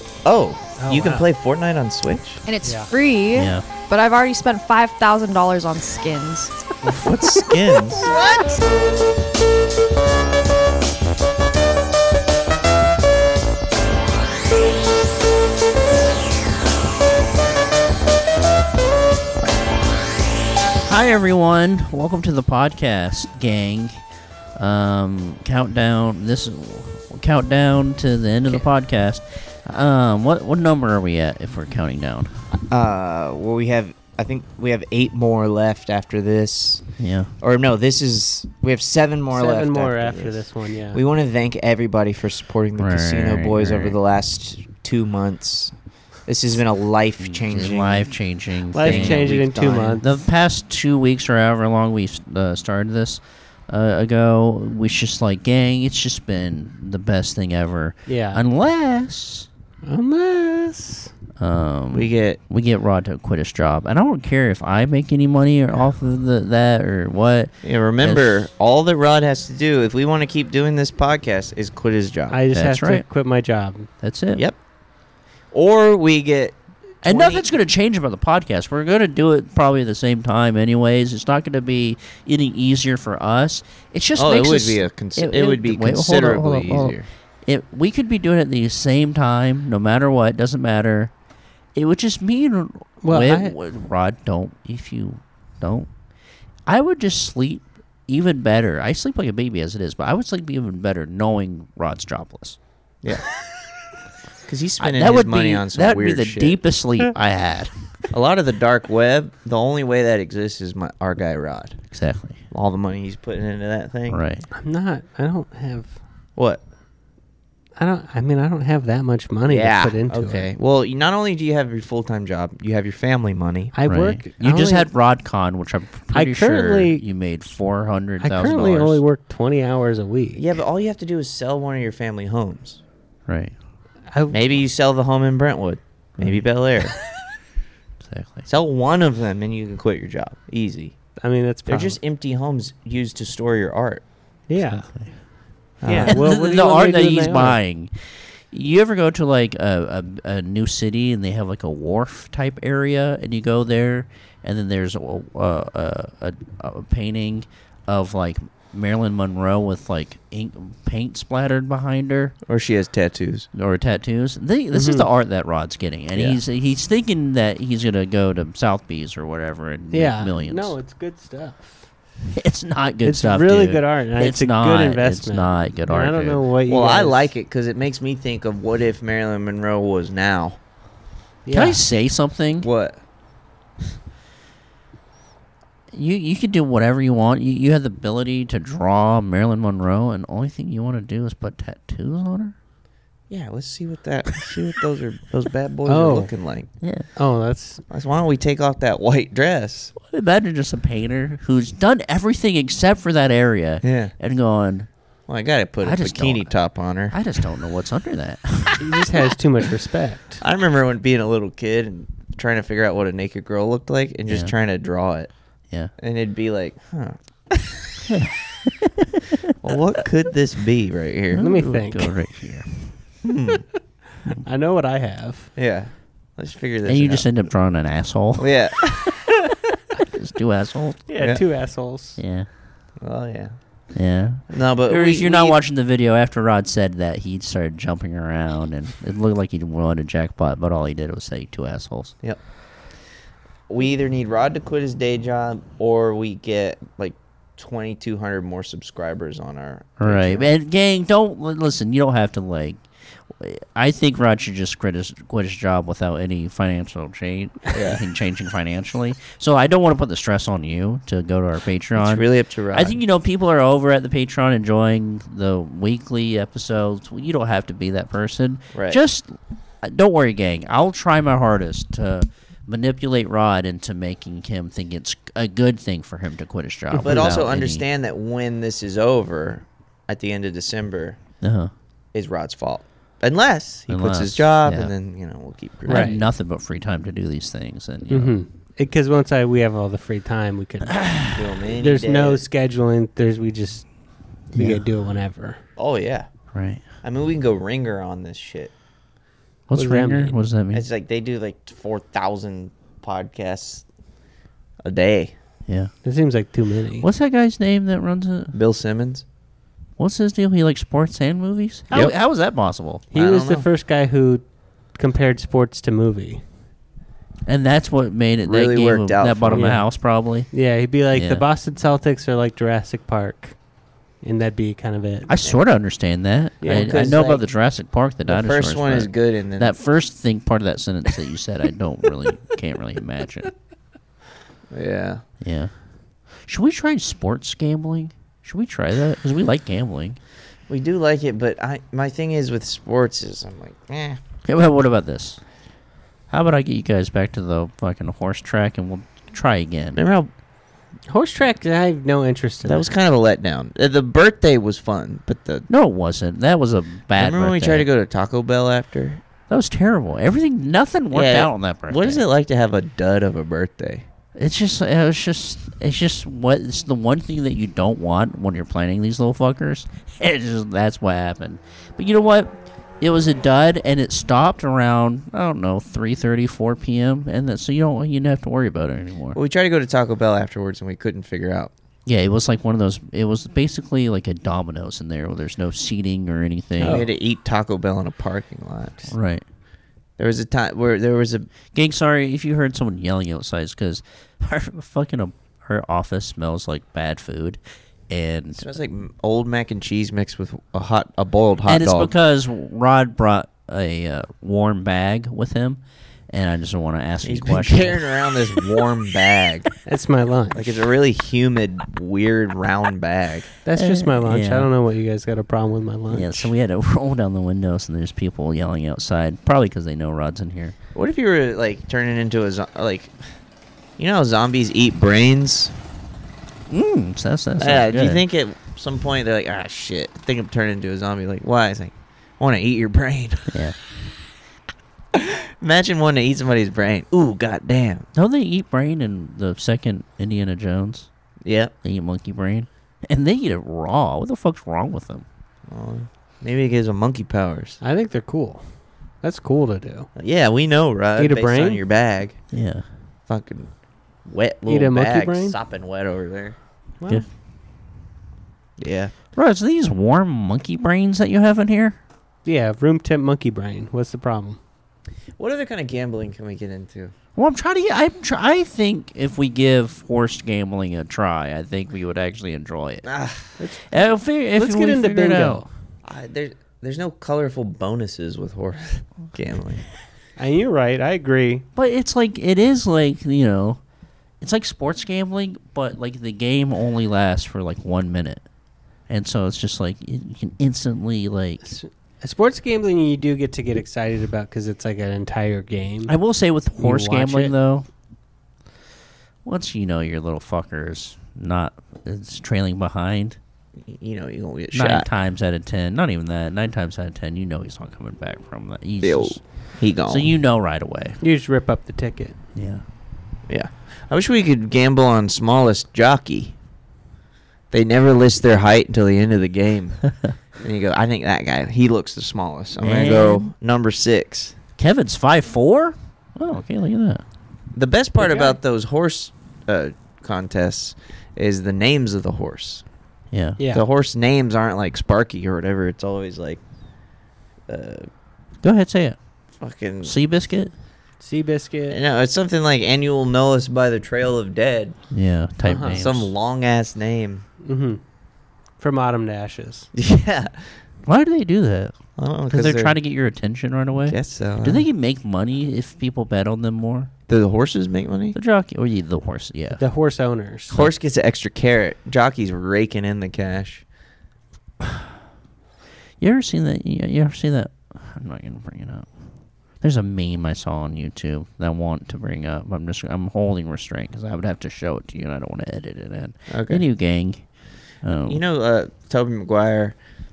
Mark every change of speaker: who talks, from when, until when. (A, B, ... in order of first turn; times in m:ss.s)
0:00.2-0:02.4 A
0:00.8-0:01.3 B
0:02.5-0:08.6 C
0:02.6-0:02.9 B
0:03.3-0:03.7 D
0:07.0-0:08.4 A
0:20.9-0:24.0 D
0:24.6-0:32.3 D
0:32.7-0:36.9 A
0:37.0-0:37.3 D
0:37.4-0:48.1 A
0:39.3-0:41.0 B
0:42.8-0:44.0 D
0:47.2-0:59.5 D
0:48.7-0:50.1 B
0:48.8-0:50.0 A
0:58.1-0:58.4 B
0:59.8-1:01.1 B
1:01.4-1:08.4 D
1:01.9-1:02.4 A
1:07.6-1:12.4 A
1:12.3-1:13.9 B
1:12.5-1:13.1 D
1:14.0-1:14.4 D
1:15.5-1:17.5 A
1:17.0-1:31.1 D
1:24.2-1:27.1 A
1:31.8-1:35.9 D
1:33.0-1:33.6 B
1:36.7-1:42.6 D
1:44.5-1:46.6 A
1:44.8-1:47.7 D
1:48.1-1:51.8 A
1:51.9-1:52.4 D
1:52.5-1:54.2 A
1:54.1-1:54.5 D
1:54.5-1:55.9 B
1:56.4-1:56.6 A
1:57.8-2:00.5 B
1:59.5-2:03.7 A
2:03.7-2:04.9 B
2:03.8-2:09.0 D
2:06.1-2:07.0 B
2:08.2-2:10.4 B
2:10.4-2:12.8 A
2:13.3-2:13.5 D
2:14.1-2:14.4 B
2:14.3-2:17.0 A
2:18.0-2:18.5 D
2:18.5-2:21.0 A
2:21.2-2:22.0 B
2:21.7-2:24.0 A
2:24.5-2:24.9 B
2:24.8-2:25.2 D
2:25.8-2:27.5 A
2:25.8-2:27.6 B
2:26.0-2:27.9 D
2:28.5-2:42.4 D
2:42.5-2:43.5 A
2:43.5-2:50.8 D
2:44.7-2:45.1 B
2:46.2-2:46.4 A
2:49.9-2:51.9 B
2:52.4-2:56.4 D
2:53.0-2:57.3 B
2:56.7-3:00.6 A
3:01.4-3:01.8 B
3:01.5-3:02.7 D
3:02.6-3:03.0 A
3:05.9-3:12.5 D
3:13.3-3:16.7 A
3:15.9-3:16.3 B
3:16.8-3:17.1 D
3:17.2-3:17.8 B
3:17.9-3:19.9 A
3:20.0-3:24.9 D
3:23.8-3:24.1 A
3:25.3-3:27.2 A
3:25.8-3:28.9 D
3:28.8-3:30.4 B
3:30.4-3:35.3 A
3:36.0-3:37.2 A
3:38.0-3:39.4 D
3:39.6-3:41.5 A
3:41.3-3:42.9 D
3:41.4-3:42.2 B
3:43.2-3:43.6 A
3:44.4-3:45.5 B
3:45.6-3:47.3 A
3:46.9-3:49.4 D
3:48.4-3:48.9 A
3:50.0-3:51.1 D
3:51.1-3:52.2 B
3:52.2-3:52.5 D
3:53.0-3:53.6 A
3:53.9-4:02.1 D
3:54.5-3:55.6 A
4:03.7-4:10.5 A
4:10.0-4:12.8 D
4:13.4-4:29.3 D
4:17.7-4:18.0 A
4:22.0-4:23.0 A
4:28.7-4:29.0 A
4:29.8-4:37.8 D
4:36.9-4:37.3 B
4:37.0-4:41.2 A
4:41.4-4:41.7 D
4:42.1-4:46.2 A
4:43.9-4:44.9 D
4:45.9-4:46.2 B
4:45.9-4:48.4 D
4:48.1-4:51.1 B
4:50.9-4:51.3 D
4:51.3-4:52.4 A
4:51.7-4:53.9 B
4:54.5-4:54.8 D
4:54.6-4:55.6 B
4:55.8-4:56.3 A
4:56.5-4:56.8 D
4:57.0-4:58.7 A
4:59.7-5:00.8 D
4:59.8-5:00.4 B
5:00.7-5:03.8 A
5:04.8-5:05.3 A
5:05.7-5:05.9 D
5:06.0-5:07.1 B
5:07.0-5:08.6 D
5:08.5-5:09.2 A
5:10.0-5:13.0 D
5:13.1-5:16.4 B
5:13.1-5:13.7 A
5:17.5-5:20.5 D
5:18.5-5:19.8 A
5:19.5-5:19.9 B
5:20.5-5:23.6 B
5:21.1-5:21.4 D
5:24.2-5:25.3 B
5:25.3-5:33.5 D
5:26.6-5:27.4 B
5:26.7-5:27.4 A
5:28.3-5:29.7 A
5:34.7-5:35.2 A
5:35.4-5:35.7 D
5:36.4-5:40.2 D
5:40.7-5:44.2 A
5:44.4-5:45.4 D
5:46.3-5:50.0 D
5:50.0-5:50.3 A
5:51.1-5:52.9 B
5:52.6-5:55.7 A
5:55.7-5:57.9 D
5:57.2-5:59.2 A
5:59.5-6:02.2 D
6:01.1-6:04.1 A
6:04.4-6:19.4 D
6:19.3-6:21.7 A
6:22.1-6:27.1 D
6:26.8-6:27.1 B
6:26.8-6:29.1 A
6:29.1-6:29.4 D
6:30.2-6:31.5 A
6:31.7-6:38.6 D
6:38.6-6:42.1 A
6:41.7-6:48.0 D
6:47.2-6:49.7 A
6:49.9-6:50.8 B
6:50.5-6:53.5 A
6:53.6-6:56.5 B
6:53.8-6:54.7 D
6:56.1-7:00.8 D
7:00.9-7:03.2 A
7:04.0-7:05.7 A
7:06.7-7:08.2 D
7:07.6-7:13.6 A
7:13.5-7:13.8 D
7:15.1-7:18.1 A
7:18.2-7:21.1 D
7:21.4-7:21.7 A
7:21.8-7:25.2 D
7:25.7-7:27.8 A
7:27.8-7:28.7 B
7:29.2-7:30.1 B
7:30.2-7:32.4 A
7:31.2-7:31.8 B
7:32.5-7:32.8 D
7:33.3-7:33.7 A
7:34.2-7:36.6 A
7:34.7-7:35.6 B
7:38.8-7:39.1 A
7:39.3-7:42.0 D
7:42.4-7:44.6 B
7:45.4-7:47.1 A
7:47.4-7:53.1 D
7:53.0-7:53.6 A
7:53.6-7:55.7 B
7:53.9-7:55.6 D
7:56.0-7:59.8 A
8:00.4-8:01.6 B
8:01.8-8:03.8 D
8:04.4-8:08.4 D
8:09.1-8:11.7 D
8:11.7-8:16.1 B
8:16.1-8:17.9 D
8:16.8-8:17.5 B
8:19.4-8:23.4 D
8:23.8-8:25.1 A
8:24.7-8:29.4 D
8:29.0-8:30.3 A
8:30.1-8:31.2 D
8:31.2-8:32.4 B
8:32.6-8:32.8 D
8:33.5-8:36.6 A
8:37.7-8:40.0 A
8:40.6-8:44.6 A
8:42.8-8:43.5 D
8:43.0-8:43.4 C
8:44.8-8:47.2 D
8:47.7-8:52.8 A
8:48.2-8:48.6 B
8:53.3-8:53.6 D
8:53.6-8:53.8 B
8:53.7-8:56.6 A
8:57.7-8:58.1 A
8:58.6-8:59.2 D
8:59.6-9:00.2 A
9:00.0-9:00.7 D
9:01.2-9:02.0 B
9:01.9-9:05.0 A
9:05.1-9:06.3 D
9:05.6-9:06.0 B
9:05.8-9:07.4 A
9:07.6-9:08.0 B
9:08.8-9:09.9 B
9:09.9-9:10.5 A
9:11.1-9:11.9 D
9:12.2-9:13.0 A
9:12.5-9:17.1 D
9:14.0-9:14.8 A
9:17.3-9:18.4 A
9:18.4-9:19.8 D
9:19.7-9:20.8 B
9:20.7-9:23.8 A
9:26.2-9:29.1 D
9:29.8-9:37.4 D
9:36.5-9:36.8 A
9:38.0-9:38.4 D
9:38.2-9:40.0 A